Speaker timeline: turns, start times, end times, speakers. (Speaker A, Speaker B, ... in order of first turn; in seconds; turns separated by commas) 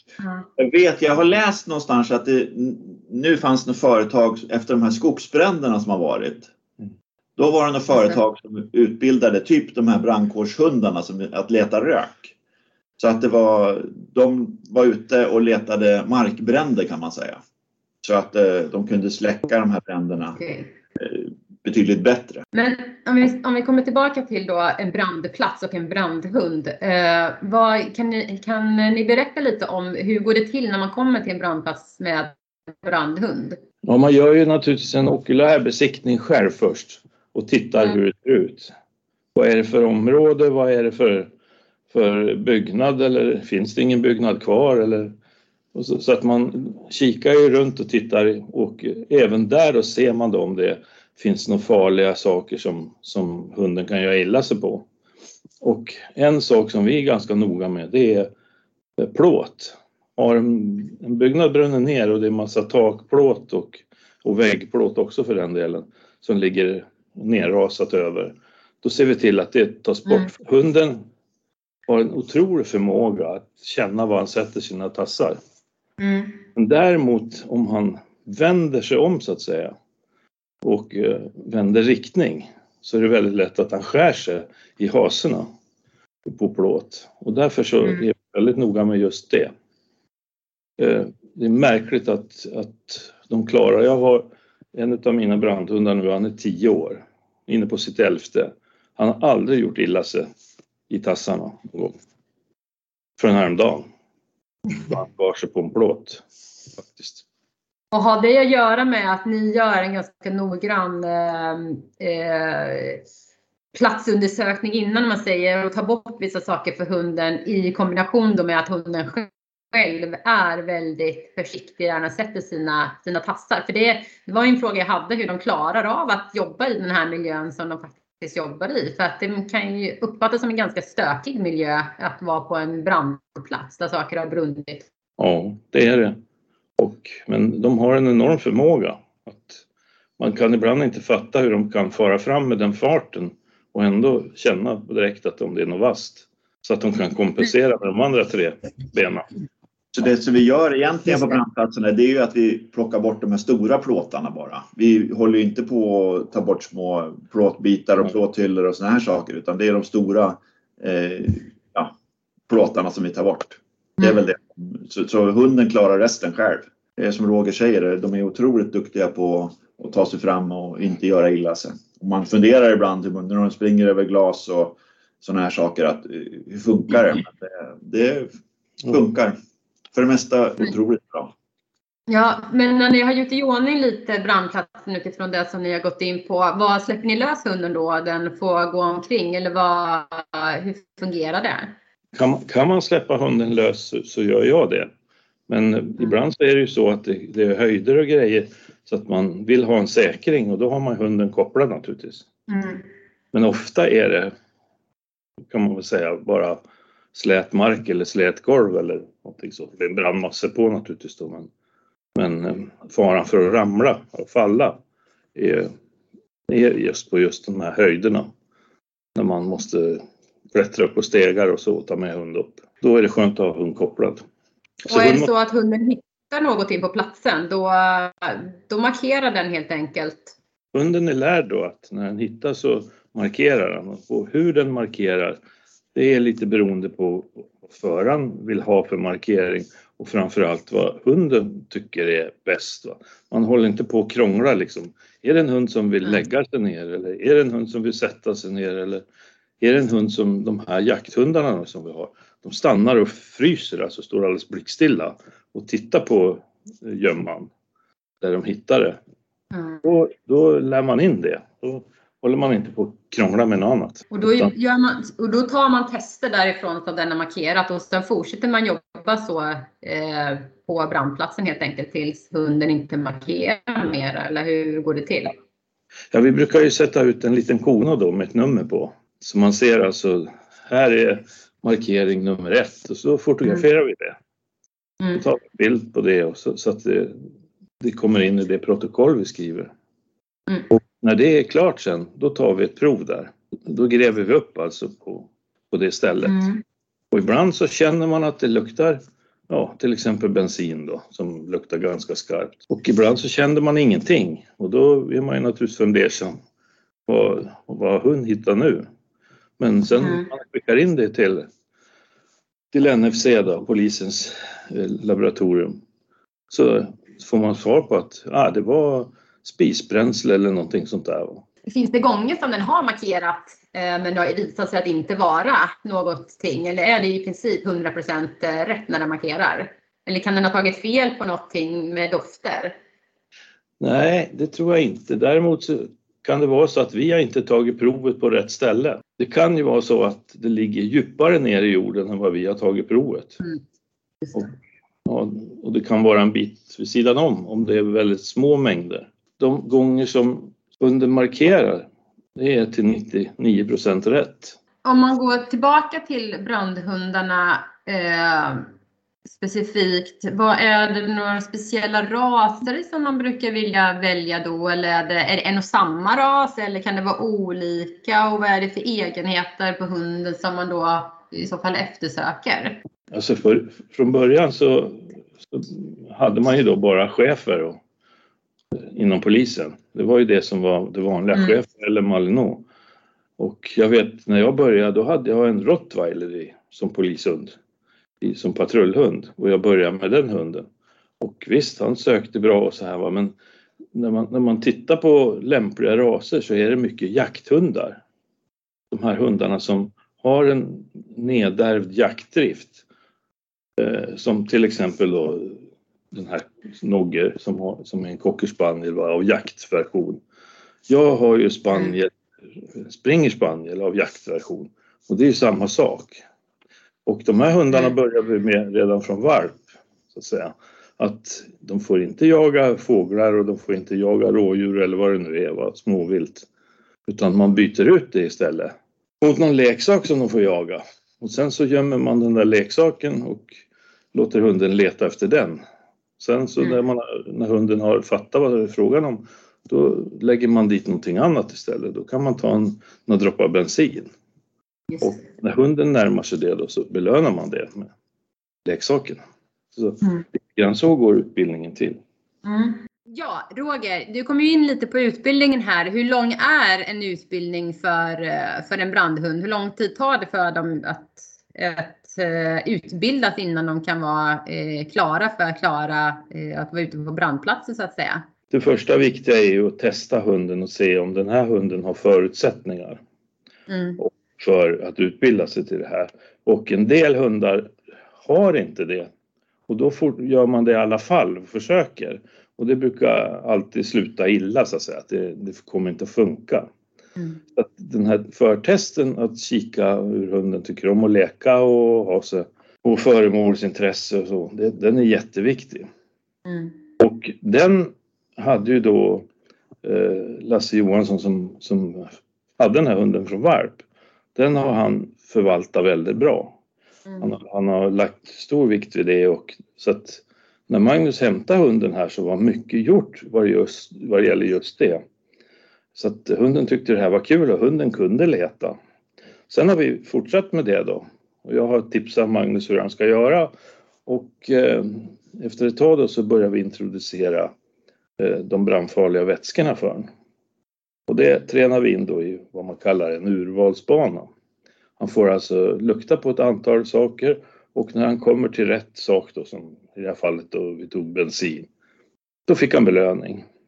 Speaker A: 0.2-0.5, Speaker B: 0.6-6.5, Speaker B: 7.4-12.3, Speaker B: 13.0-17.4, Speaker B: 18.0-20.4, Speaker A: 20.3-20.7, Speaker B: 21.0-22.4, Speaker A: 22.5-33.6, Speaker C: 33.8-38.7, Speaker C: 39.3-41.3, Speaker C: 41.9-45.1, Speaker C: 45.7-54.9, Speaker C: 55.6-58.3, Speaker C: 59.0-71.0, Speaker C: 71.9-75.4, Speaker A: 76.0-76.4, Speaker C: 76.5-79.8, Speaker C: 80.6-85.5, Speaker C: 86.2-89.5, Speaker C: 90.8-100.3, Speaker C: 100.9-102.0, Speaker C: 103.2-103.9, Speaker C: 104.8-106.2, Speaker C: 106.7-107.2, Speaker A: 107.9-113.0, Speaker A: 113.7-134.9, Speaker C: 135.2-136.2, Speaker C: 136.8-139.6, Speaker C: 140.2-149.3, Speaker B: 149.9-161.9, Speaker B: 162.5-178.3, Speaker B: 178.9-179.3, Speaker B: 179.9-181.3, Speaker A: 182.1-191.7, Speaker C: 192.1-194.9, Speaker C: 195.5-202.2, Speaker A: 202.5-202.9, Speaker C: 203.3-204.3, Speaker C: 205.5-206.6, Speaker C: 207.1-211.5, Speaker C: 212.1-214.8, Speaker C: 215.3-215.7, Speaker C: 216.5-218.3, Speaker C: 219.1-224.2, Speaker A: 224.8-230.3, Speaker C: 224.8-225.3, Speaker C: 230.7-235.4, Speaker C: 235.9-249.0, Speaker C: 249.6-257.5, Speaker C: 258.2-259.0, Speaker A: 259.5-259.8, Speaker C: 259.8-264.5, Speaker A: 264.1-275.3, Speaker C: 276.1-284.2, Speaker C: 285.1-287.2, Speaker C: 287.8-289.7, Speaker C: 290.7-296.4, Speaker A: 296.2-296.6, Speaker C: 297.1-306.4, Speaker C: 307.1-308.9, Speaker C: 309.6-311.4, Speaker A: 310.0-310.3, Speaker C: 312.7-315.8, Speaker C: 316.5-321.4, Speaker A: 321.6-332.8, Speaker C: 333.8-343.4, Speaker A: 344.2-344.5, Speaker C: 345.1-354.6, Speaker A: 354.8-358.6, Speaker A: 359.3-372.8, Speaker C: 373.1-377.8, Speaker C: 378.9-382.6, Speaker C: 383.4-387.5, Speaker C: 388.2-390.7, Speaker C: 391.2-393.3, Speaker C: 393.9-398.0, Speaker C: 398.9-402.8, Speaker C: 403.8-410.2, Speaker C: 410.9-412.1, Speaker C: 412.7-416.2, Speaker C: 417.1-419.6, Speaker C: 420.1-426.4, Speaker C: 427.1-433.6, Speaker C: 434.1-435.6, Speaker C: 436.2-444.1, Speaker A: 444.9-445.2, Speaker C: 445.0-447.9, Speaker C: 448.6-449.2, Speaker C: 449.7-452.0, Speaker A: 452.4-468.2, Speaker C: 468.5-473.0, Speaker A: 473.7-474.0, Speaker C: 474.0-479.1, Speaker C: 479.7-486.7, Speaker C: 487.5-495.9, Speaker A: 496.4-496.7, Speaker C: 497.0-499.2, Speaker C: 499.8-503.8, Speaker C: 504.3-506.6, Speaker C: 507.2-515.0, Speaker C: 515.9-518.8, Speaker C: 519.5-523.5, Speaker C: 524.0-527.5, Speaker C: 528.2-530.1, Speaker C: 531.1-534.3, Speaker C: 535.0-541.7, Speaker C: 542.5-543.5